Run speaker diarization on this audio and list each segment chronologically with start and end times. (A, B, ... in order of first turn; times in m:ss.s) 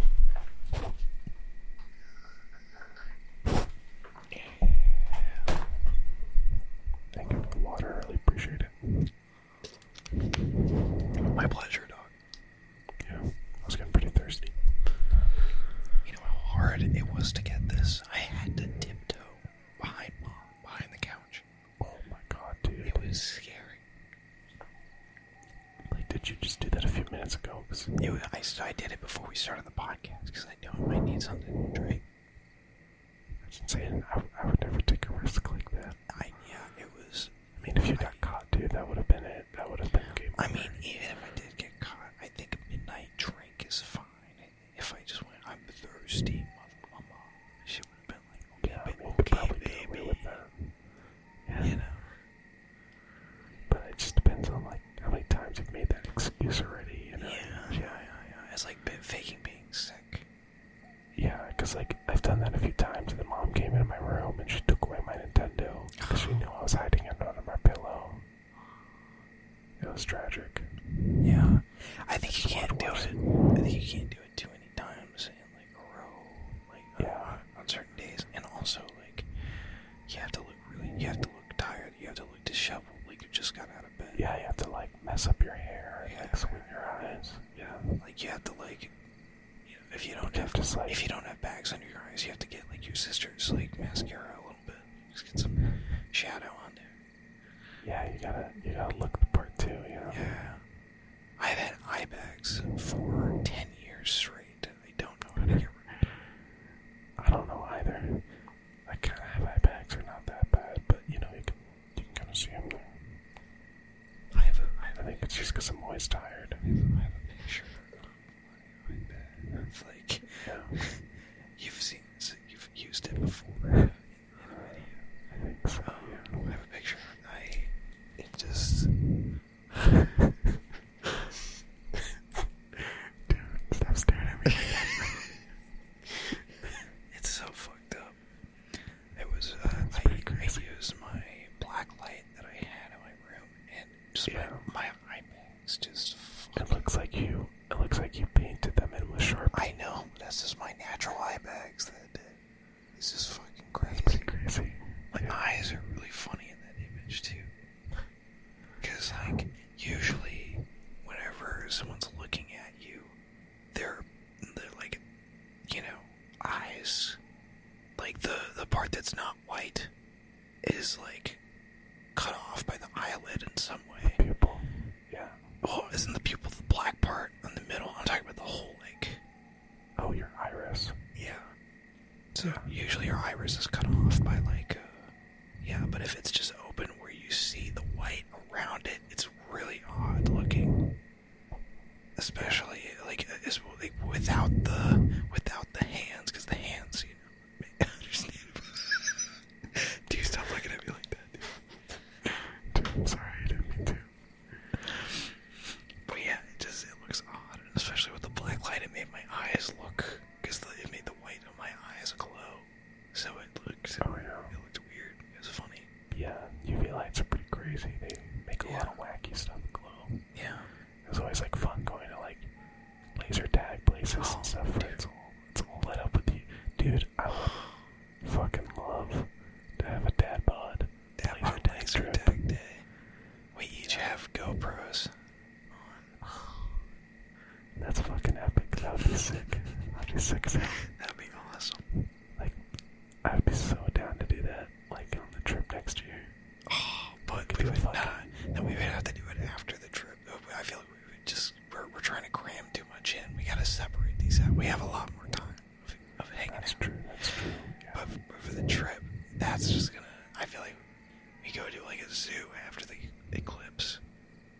0:07.1-0:09.1 A
0:11.2-0:12.1 B
0:13.0-0:14.7 A
0:16.0-0:21.4 B
0:21.8-0:23.1 A
0:22.8-0:23.8 B
0:25.9-0:28.0 A
0:28.0-0:32.0 B
0:33.4-0:36.0 A
0:36.1-0:37.4 B
0:37.6-0:40.8 A
0:37.9-0:38.2 B
0:40.4-0:50.4 B
0:48.6-0:50.8 A
0:51.5-0:51.8 A
0:51.6-0:52.1 B
0:53.7-0:58.1 A
0:57.2-1:00.3 B
1:01.2-1:08.3 A
1:09.8-1:10.8 A
1:11.2-1:24.2 B
1:12.2-1:13.4 A
1:17.0-1:17.4 A
1:24.1-1:28.0 A
1:26.0-1:26.6 B
1:28.0-1:28.9 B
1:29.7-1:36.9 B
1:30.2-1:31.0 A
1:37.8-1:40.3 A
1:40.1-1:40.6 B
1:41.4-1:46.0 B
1:47.2-1:48.3 A
1:48.9-1:53.2 A
1:54.3-1:55.0 B
1:54.9-1:56.6 A
1:56.6-1:57.9 B
1:58.9-2:05.0 B
2:00.4-2:00.8 A
2:05.3-2:06.4 A
2:05.8-2:08.9 B
2:13.3-2:15.4 A
2:17.1-2:18.2 B
2:19.1-2:26.8 B
2:19.9-2:20.7 A
2:24.3-2:24.6 A
2:26.6-2:29.8 A
2:29.5-2:32.4 B
2:33.0-2:34.3 B
2:33.8-2:35.4 A
2:35.1-2:37.5 B
2:38.8-2:43.2 B
2:43.7-2:45.0 B
2:45.7-2:47.2 B
2:48.0-2:49.9 B
2:50.6-2:51.4 B
2:52.2-2:54.2 B
2:54.0-2:55.4 A
2:55.6-2:59.2 B
3:00.0-3:01.0 A
3:01.2-3:01.5 B
3:02.3-3:10.8 B
3:12.2-3:19.0 B
3:19.7-3:21.6 B
3:22.3-3:24.1 A
3:26.1-3:35.9 B
3:34.0-3:34.5 A
3:36.1-3:40.2 A
3:38.6-3:38.9 B
3:40.3-3:40.7 B
3:41.0-3:42.5 A
3:43.1-3:52.3 A
3:44.2-3:45.0 B
3:51.2-3:52.9 B
3:53.5-3:55.2 B
3:57.8-4:00.8 A
4:00.8-4:01.8 B
4:03.2-4:06.3 A
4:06.7-4:16.8 B
4:07.5-4:08.2 A
4:16.5-4:18.0 A
4:17.9-4:20.8 B
4:21.4-4:24.0 B